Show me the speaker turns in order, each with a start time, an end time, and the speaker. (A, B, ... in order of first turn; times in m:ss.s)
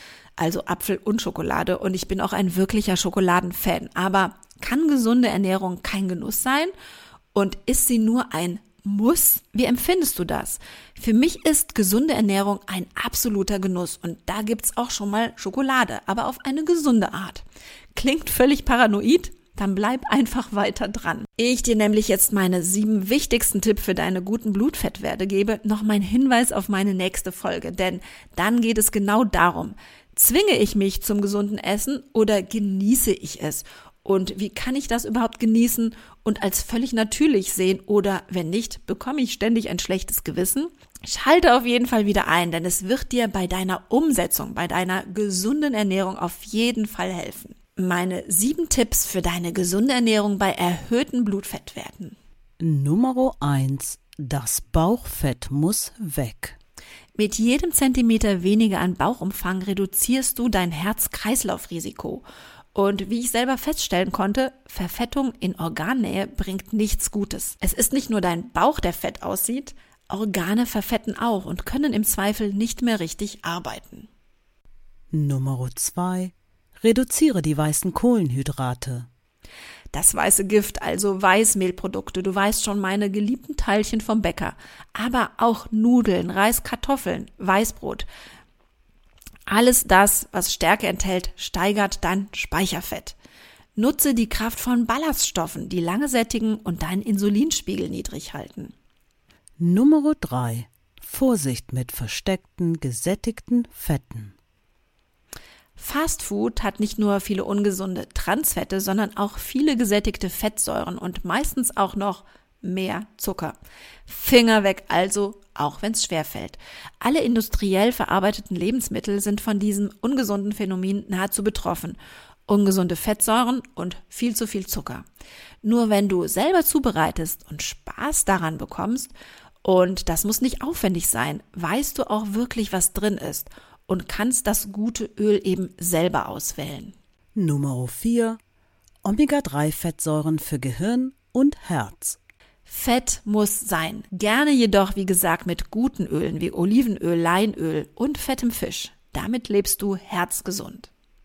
0:00.4-0:06.7 A
0:07.3-0:52.2 A
0:52.6-0:56.6 B
0:57.2-1:14.1 A
1:15.1-1:19.1 B
1:19.9-1:28.1 A
1:29.5-1:33.2 A
1:33.8-1:38.7 A
1:39.6-1:44.4 B
1:45.8-1:53.6 A
1:54.1-2:05.1 A
2:05.6-2:09.1 A
2:09.6-2:17.0 A
2:17.4-2:18.4 B
2:19.0-2:22.2 B
2:22.7-2:30.9 A